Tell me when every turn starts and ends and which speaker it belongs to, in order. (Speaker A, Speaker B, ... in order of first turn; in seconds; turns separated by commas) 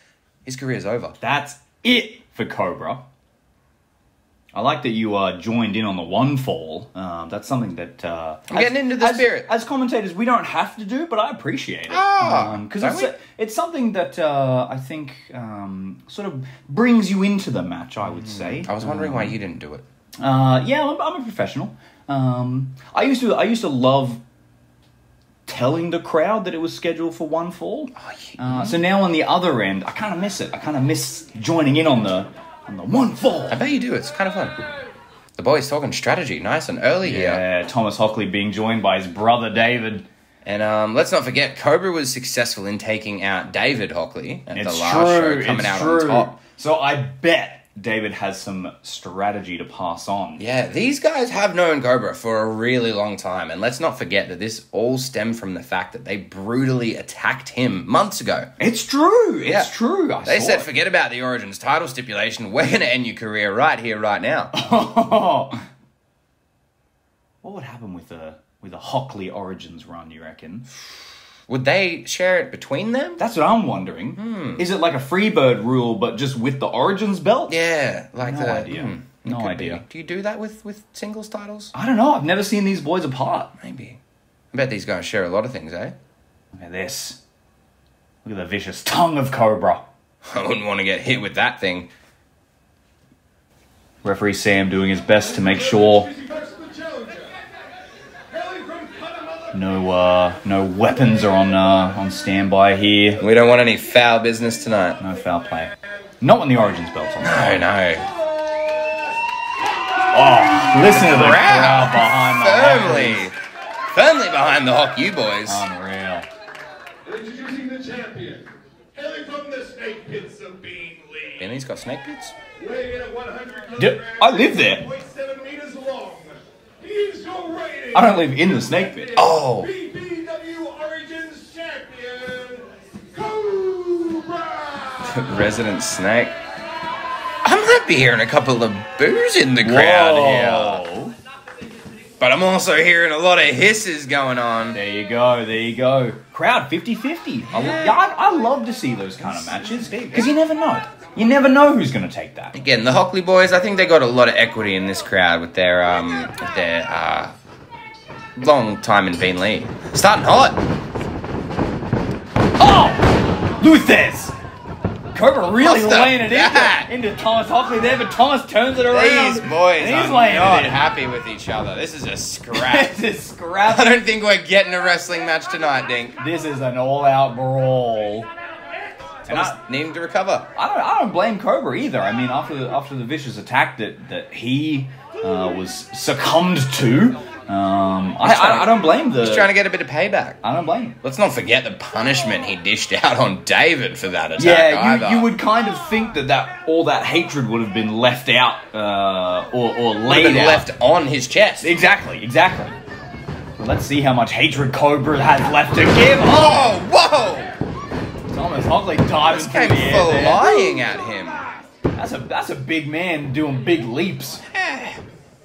Speaker A: 0.4-1.1, Speaker B: 1.2-3.0, Speaker B: 4.5-19.4, Speaker A: 8.5-9.5, Speaker A: 11.9-13.1, Speaker A: 18.0-19.8, Speaker B: 20.2-24.2, Speaker B: 25.5-33.6, Speaker A: 28.0-28.8, Speaker A: 33.5-34.6, Speaker A: 35.4-37.4, Speaker B: 37.0-40.0, Speaker A: 40.4-46.3, Speaker B: 44.5-50.4, Speaker A: 50.4-58.5, Speaker B: 58.6-60.7, Speaker A: 59.4-59.7, Speaker A: 60.2-64.5, Speaker B: 64.5-65.6, Speaker B: 67.4-70.7, Speaker A: 71.5-73.2, Speaker B: 73.2-77.5, Speaker A: 74.2-74.7, Speaker A: 77.5-81.7, Speaker B: 78.2-79.8, Speaker B: 81.7-83.5, Speaker A: 83.6-84.0, Speaker A: 84.5-85.9, Speaker B: 86.5-87.2, Speaker B: 88.2-89.8, Speaker A: 90.2-91.9, Speaker B: 94.0-96.2, Speaker C: 96.3-97.3, Speaker C: 98.4-99.3, Speaker B: 99.5-103.2, Speaker A: 103.2-105.0, Speaker B: 105.0-107.7, Speaker A: 107.2-108.1, Speaker B: 110.1-113.3, Speaker A: 110.8-113.3, Speaker A: 113.9-115.7, Speaker B: 115.5-116.3, Speaker C: 117.2-118.4, Speaker C: 119.0-121.3, Speaker A: 121.4-122.3, Speaker C: 122.6-123.7, Speaker B: 123.7-124.9, Speaker C: 125.0-127.9, Speaker B: 127.9-129.2, Speaker A: 129.2-129.7, Speaker C: 129.8-134.9, Speaker A: 135.0-136.3, Speaker A: 137.4-140.8, Speaker B: 139.6-141.2, Speaker A: 142.2-144.8, Speaker B: 144.7-152.5, Speaker A: 147.5-148.0, Speaker A: 149.9-150.2, Speaker A: 152.5-157.3, Speaker A: 158.3-160.6, Speaker B: 162.6-163.1, Speaker B: 163.6-164.3, Speaker B: 165.1-170.8, Speaker A: 165.6-166.9, Speaker A: 168.9-172.9, Speaker B: 172.5-174.0, Speaker A: 173.6-176.2, Speaker B: 176.2-178.3, Speaker A: 179.2-180.5, Speaker B: 179.3-179.6, Speaker B: 180.6-189.5, Speaker A: 188.2-190.4, Speaker B: 190.4-191.0, Speaker A: 191.0-195.3, Speaker B: 194.4-200.7, Speaker A: 200.1-201.7, Speaker B: 201.6-202.8, Speaker B: 203.6-206.8, Speaker A: 206.2-207.5, Speaker B: 208.3-210.6, Speaker A: 209.3-211.4, Speaker B: 211.9-214.4, Speaker A: 214.5-215.0